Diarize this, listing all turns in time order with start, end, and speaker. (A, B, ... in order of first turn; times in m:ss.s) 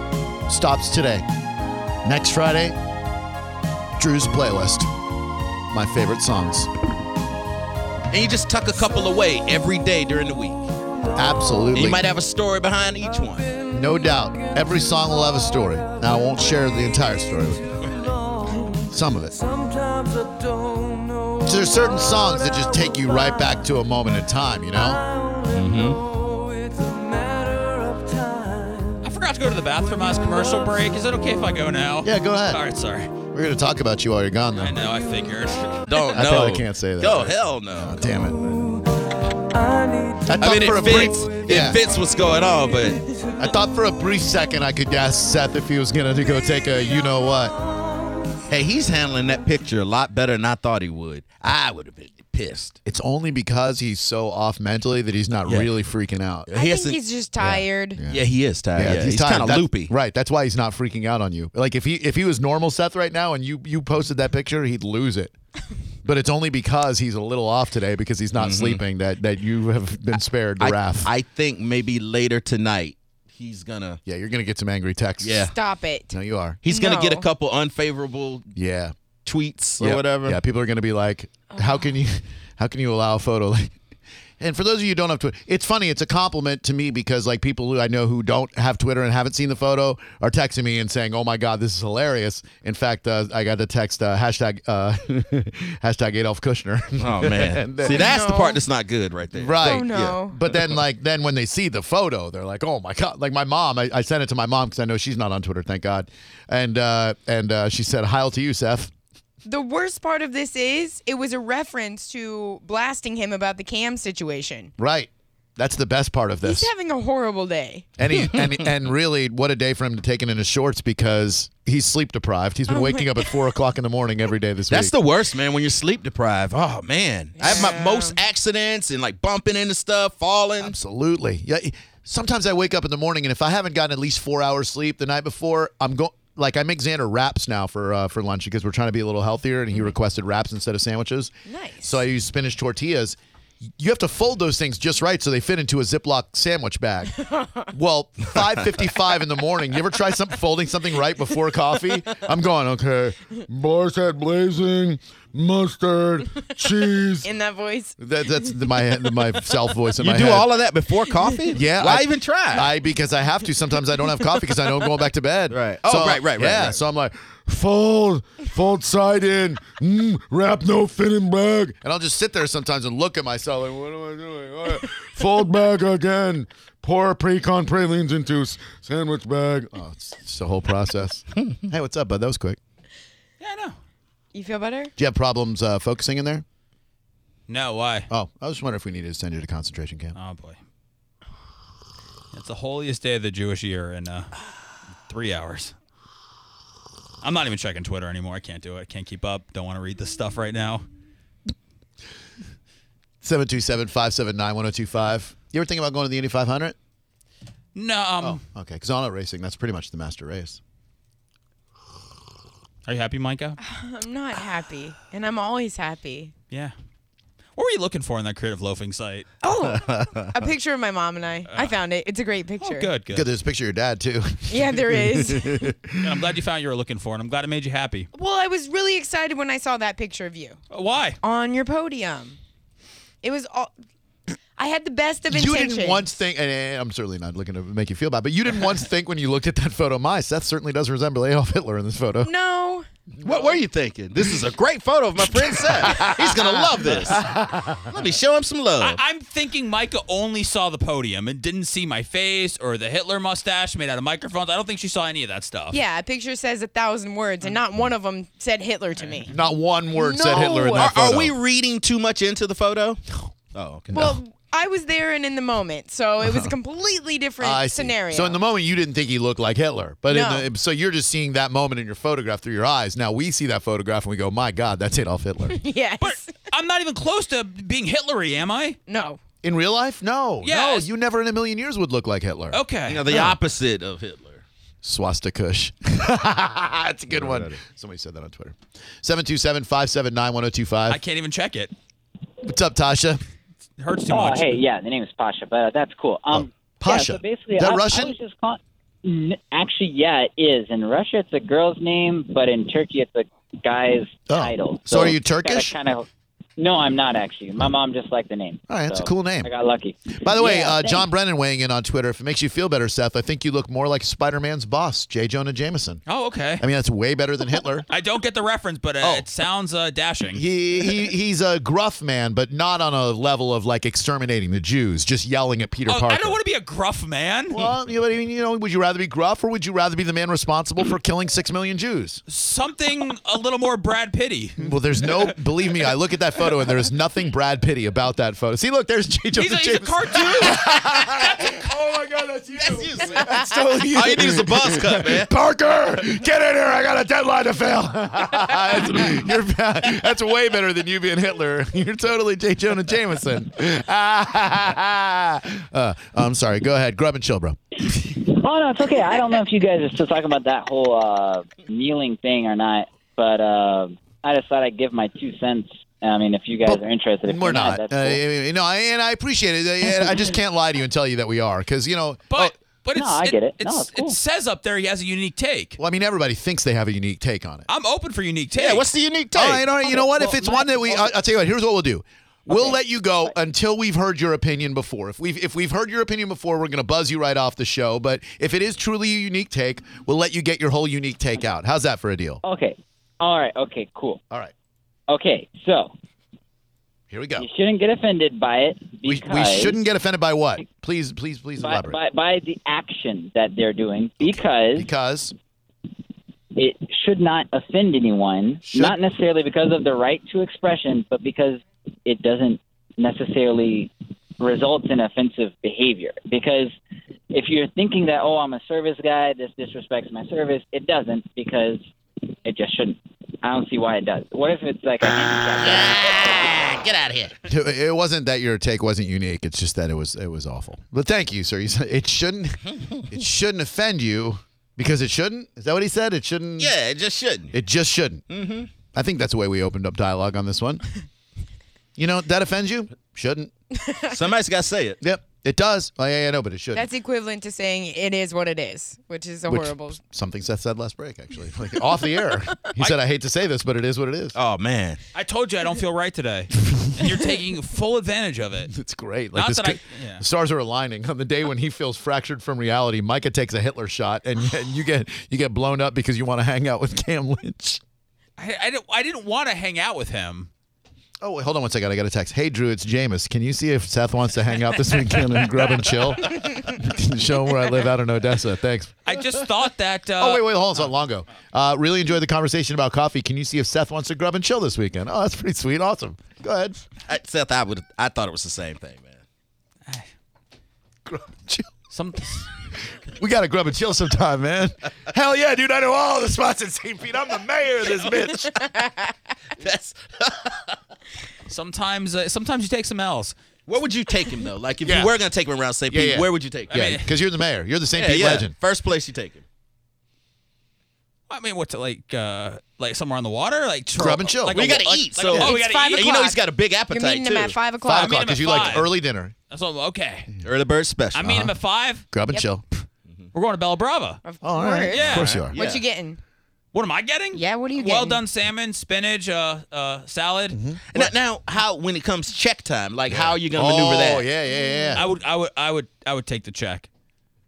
0:00.5-0:01.2 A
0:02.0-0:02.8 A
0:04.0-0:04.9 A
0:05.7-0:06.7 A
0:08.1-0:10.6 B
0:11.1-0:12.1 A
0:11.7-0:13.5 B
0:13.7-0:17.8 A
0:18.8-0:19.4 A
0:21.4-0:25.0 A
0:25.5-0:26.0 B
0:29.0-0:33.2 C
0:32.0-0:32.6 A
0:33.3-0:34.8 A
0:34.6-0:35.8 C
0:35.9-0:38.0 B
0:36.1-0:38.7 A
0:40.2-0:41.8 A
0:40.4-0:43.0 B
0:43.4-0:47.6 A
0:48.5-0:52.8 B
0:52.8-0:56.5 A
0:55.4-0:55.7 B
0:56.4-0:57.0 B
0:56.5-0:58.0 D
0:57.4-1:05.3 A
0:58.1-0:59.9 B
1:06.0-1:11.1 A
1:08.4-1:08.8 B
1:10.6-1:14.0 B
1:14.0-1:15.5 A
1:15.2-1:15.5 B
1:15.4-1:16.2 D
1:16.1-1:16.6 A
1:16.6-1:18.5 B
1:16.7-1:17.3 D
1:18.5-1:18.9 A
1:19.2-1:20.4 B
1:19.8-1:23.8 A
1:24.4-1:38.2 A
1:37.0-1:40.8 B
1:37.8-1:38.6 D
1:39.3-1:48.9 A
1:39.6-1:40.4 D
1:49.4-1:54.7 D
1:54.8-1:56.7 A
1:56.4-1:57.8 D
1:58.0-2:04.9 A
2:02.7-2:03.2 D
2:04.7-2:10.7 B
2:07.4-2:08.2 D
2:10.6-2:23.2 A
2:21.5-2:22.0 D
2:23.8-2:27.1 A
2:27.2-2:27.7 D
2:27.7-2:37.3 A
2:37.2-2:38.0 D
2:38.0-2:40.5 A
2:40.0-2:42.7 B
2:41.5-3:02.6 A
2:45.5-2:46.8 B
3:03.4-3:03.8 C
3:04.3-3:04.9 D
3:05.0-3:06.4 A
3:07.5-3:08.1 C
3:08.1-3:10.1 A
3:10.1-3:10.6 C
3:12.3-3:14.3 C
3:15.0-3:15.7 C
3:17.2-3:20.8 C
3:23.2-3:26.8 A
3:27.7-3:28.4 C
3:28.2-3:30.6 A
3:32.8-3:33.6 C
3:33.6-3:36.3 D
3:37.6-3:39.3 C
3:39.4-3:42.9 D
3:39.7-3:40.3 B
3:41.5-3:41.7 C
3:42.6-3:43.3 C
3:43.1-3:46.2 A
3:44.5-3:45.7 D
3:46.0-3:48.1 C
3:48.1-3:50.6 D
3:50.7-3:51.2 C
3:51.2-3:52.4 D
3:53.2-3:53.7 D
3:54.6-3:56.1 D
3:55.3-4:02.3 A
4:02.2-4:02.9 D
4:03.2-4:03.5 A
4:03.2-4:07.3 B
4:05.3-4:07.9 A
4:07.9-4:09.0 B
4:08.8-4:15.8 C
4:15.7-4:19.3 D
4:19.3-4:21.3 A
4:19.9-4:20.9 D
4:20.4-4:23.0 B
4:23.5-4:24.0 B
4:23.9-4:24.2 A
4:23.9-4:28.4 D
4:26.2-4:26.5 A
4:27.4-4:35.6 A
4:30.1-4:30.4 D
4:35.5-4:36.3 D
4:36.0-4:38.8 C
4:38.9-4:39.2 D
4:39.4-4:43.4 A
4:40.4-4:40.9 C
4:42.5-4:43.2 C
4:42.9-4:44.4 B
4:44.8-4:51.0 A
4:47.1-4:47.6 B
4:50.9-4:51.7 C
4:52.4-4:53.2 A
4:53.8-4:54.6 C
4:54.1-5:11.0 E
4:56.3-4:58.2 A
5:04.3-5:05.7 A
5:08.7-5:09.5 A
5:10.2-5:16.0 A
5:16.1-5:16.6 C
5:16.6-5:17.9 A
5:17.9-5:20.4 C
5:20.3-5:26.4 A
5:25.9-5:27.7 C
5:27.5-5:32.2 A
5:32.3-5:35.3 C
5:34.6-5:57.6 A
5:39.4-5:40.8 C
5:42.6-5:45.3 B
5:58.0-6:08.2 E
6:06.6-6:12.5 A
6:12.3-6:15.8 C
6:12.9-6:14.2 E
6:15.8-6:17.7 A
6:17.7-6:18.9 C
6:18.6-6:19.7 B
6:19.3-6:32.4 A
6:19.9-6:20.8 E
6:32.4-6:34.2 E
6:35.1-6:35.9 E
6:37.1-6:37.5 A
6:37.4-6:39.8 E
6:39.0-6:42.0 A
6:41.6-6:44.9 E
6:44.2-6:45.3 A
6:46.5-6:56.7 E
6:48.6-6:49.0 A
6:57.3-7:01.8 E
7:02.4-7:06.2 E
7:05.6-7:07.4 B
7:07.5-7:16.7 A
7:12.6-7:13.0 B
7:16.6-7:17.5 B
7:17.5-7:18.2 A
7:18.3-7:18.7 B
7:18.9-7:20.8 A
7:22.0-7:23.5 A
7:24.1-7:25.0 B
7:25.0-7:26.9 A
7:26.7-7:30.0 D
7:29.5-7:34.4 A
7:34.3-7:35.0 B
7:35.1-7:38.7 C
7:38.7-7:47.8 A
7:39.3-7:40.2 C
7:48.4-7:50.5 C
7:51.2-7:59.0 A
7:59.0-8:00.8 C
8:00.2-8:06.8 A
8:07.1-8:09.2 B
8:11.0-8:11.7 A
8:11.9-8:12.5 C
8:13.1-8:18.7 A
8:19.6-8:20.8 B
8:21.5-8:23.3 C
8:23.7-8:26.7 B
8:24.8-8:25.1 A
8:25.9-8:28.5 A
8:26.7-8:27.1 C
8:28.0-8:29.4 B
8:31.3-8:36.1 C
8:33.9-8:34.7 A
8:34.5-8:37.6 B
8:35.3-8:36.4 D
8:36.9-8:38.7 D
8:37.8-8:39.3 A
8:37.9-8:38.9 C
8:39.5-8:40.3 C
8:40.4-8:41.4 B
8:41.1-8:42.1 C
8:41.2-8:41.5 A
8:42.1-8:42.6 A
8:43.3-8:44.2 C
8:44.2-8:46.2 D
8:44.4-8:45.5 A
8:44.9-8:45.5 C
8:45.0-8:45.8 B
8:46.7-8:50.6 C
8:47.3-8:48.2 D
8:50.5-8:51.1 A
8:50.9-8:54.2 B
8:53.1-8:55.1 A
8:54.5-8:55.0 D
8:55.0-8:56.9 C